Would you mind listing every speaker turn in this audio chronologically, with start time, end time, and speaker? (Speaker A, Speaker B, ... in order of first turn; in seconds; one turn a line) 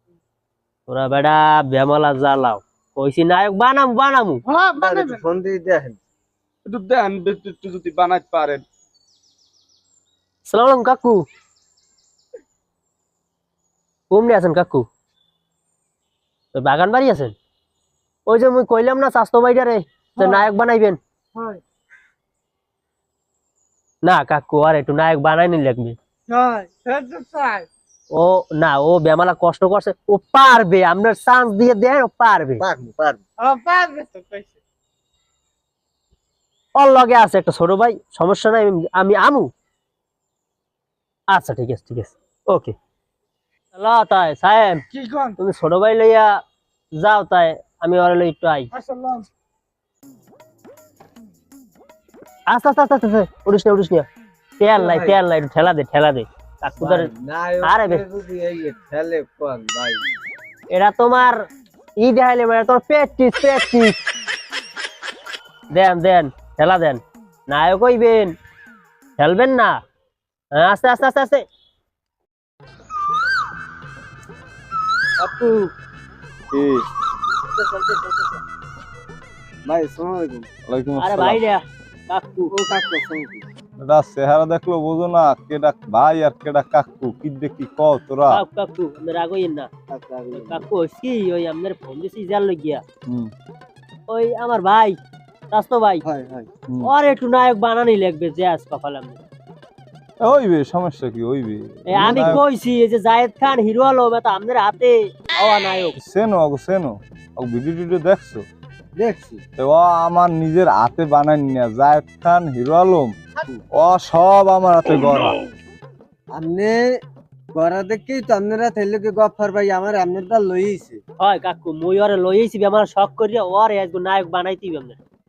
Speaker A: 0.9-4.4
Speaker B: 4.5-5.2
Speaker C: 4.8-6.0
Speaker D: 6.6-8.6
Speaker A: 10.4-11.2
Speaker A: 14.1-14.8
Speaker A: 16.5-17.3
Speaker A: 18.3-21.0
Speaker B: 20.2-20.5
Speaker B: 21.3-21.6
Speaker A: 24.0-25.9
Speaker B: 26.3-27.7
Speaker A: 28.1-32.6
Speaker C: 32.6-33.2
Speaker B: 33.4-34.6
Speaker A: 36.8-39.5
Speaker A: 41.3-42.7
Speaker A: 43.7-44.8
Speaker B: 44.9-45.4
Speaker A: 45.4-46.3
Speaker A: 47.0-48.7
Speaker B: 48.7-49.3
Speaker A: 52.5-54.0
Speaker A: 54.6-57.1
Speaker C: 54.7-55.2
Speaker C: 56.8-60.0
Speaker A: 57.6-58.0
Speaker A: 60.7-61.4
Speaker A: 62.0-64.0
Speaker A: 65.7-68.3
Speaker A: 69.2-69.8
Speaker A: 70.5-71.4
Speaker A: 75.2-75.6
Speaker E: 76.5-76.8
Speaker A: 77.5-78.4
Speaker C: 79.6-80.5
Speaker E: 80.7-81.4
Speaker A: 81.0-82.5
Speaker C: 82.5-83.5
Speaker E: 83.8-88.4
Speaker A: 88.3-89.7
Speaker C: 89.9-90.6
Speaker A: 90.3-92.8
Speaker A: 94.1-95.0
Speaker A: 95.5-96.0
Speaker C: 96.0-96.5
Speaker A: 96.8-99.2
Speaker E: 100.2-102.4
Speaker A: 101.9-106.0
Speaker C: 102.0-102.3
Speaker E: 106.0-108.4
Speaker C: 109.0-109.4
Speaker E: 109.6-113.1
Speaker E: 113.7-115.3
Speaker C: 116.3-116.9
Speaker C: 117.5-121.0
Speaker A: 121.2-125.0